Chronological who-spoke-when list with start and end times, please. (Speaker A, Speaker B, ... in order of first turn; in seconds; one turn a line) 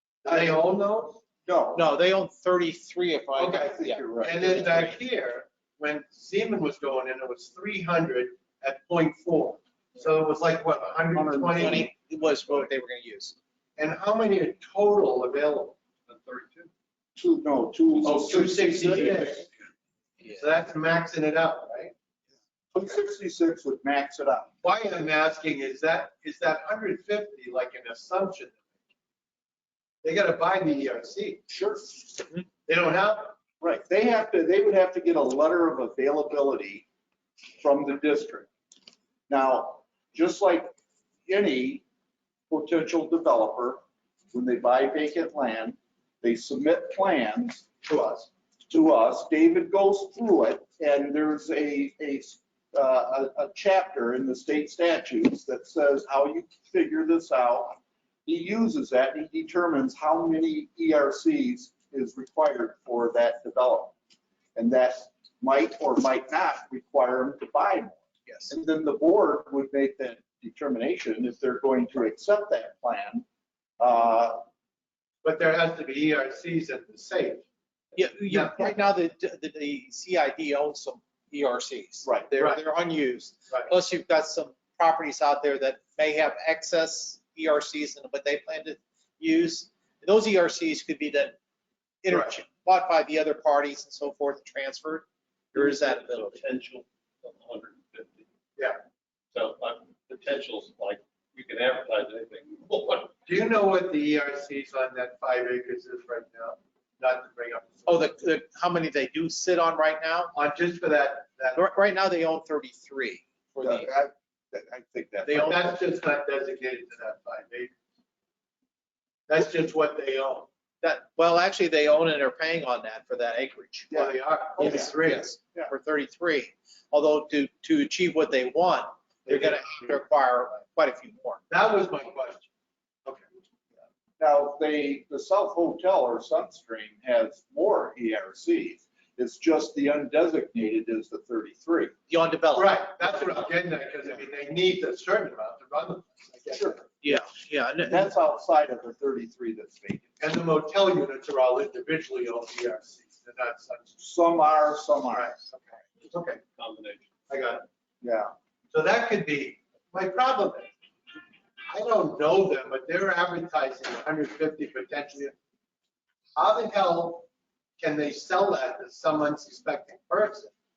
Speaker A: 0.2-1.2
Speaker B: 0.2-0.6
Speaker B: 1.4-1.9
Speaker C: 1.8-4.9
Speaker A: 3.4-11.9
Speaker B: 3.6-4.9
Speaker B: 11.1-11.9
Speaker C: 11.6-13.3
Speaker A: 13.8-15.8
Speaker D: 16.1-16.7
Speaker B: 17.1-19.4
Speaker A: 18.0-19.5
Speaker A: 20.2-21.9
Speaker B: 22.7-24.5
Speaker A: 24.6-28.6
Speaker A: 30.0-31.4
Speaker B: 31.5-31.9
Speaker A: 32.7-33.4
Speaker B: 33.6-36.9
Speaker B: 37.6-38.5
Speaker B: 39.3-40.7
Speaker B: 41.3-41.8
Speaker B: 42.5-43.8
Speaker B: 44.3-47.7
Speaker A: 47.9-48.3
Speaker B: 48.7-64.0
Speaker B: 64.5-73.2
Speaker B: 73.8-74.4
Speaker A: 75.2-77.5
Speaker C: 78.0-91.3
Speaker A: 78.2-78.8
Speaker B: 82.0-82.3
Speaker A: 82.3-82.6
Speaker C: 92.0-96.4
Speaker D: 95.5-98.3
Speaker D: 99.3-103.1
Speaker A: 103.2-108.1
Speaker C: 107.9-110.3
Speaker A: 110.3-111.6
Speaker C: 111.6-113.9
Speaker B: 113.6-115.8
Speaker C: 115.3-115.6
Speaker A: 115.3-117.7
Speaker A: 119.3-120.5
Speaker C: 120.8-124.0
Speaker B: 123.9-124.9
Speaker A: 123.9-125.3
Speaker C: 124.6-131.4
Speaker A: 129.3-129.9
Speaker A: 131.5-132.5
Speaker B: 134.2-141.9
Speaker C: 142.1-143.4
Speaker A: 142.6-146.9
Speaker B: 146.6-146.8
Speaker C: 147.0-148.1
Speaker B: 147.8-150.1
Speaker A: 150.2-154.0
Speaker B: 154.0-155.3
Speaker A: 155.1-156.4
Speaker D: 156.6-157.1
Speaker A: 157.3-157.7
Speaker B: 158.0-158.3
Speaker A: 158.7-160.7
Speaker A: 161.7-165.3
Speaker A: 166.3-167.3
Speaker A: 167.8-170.5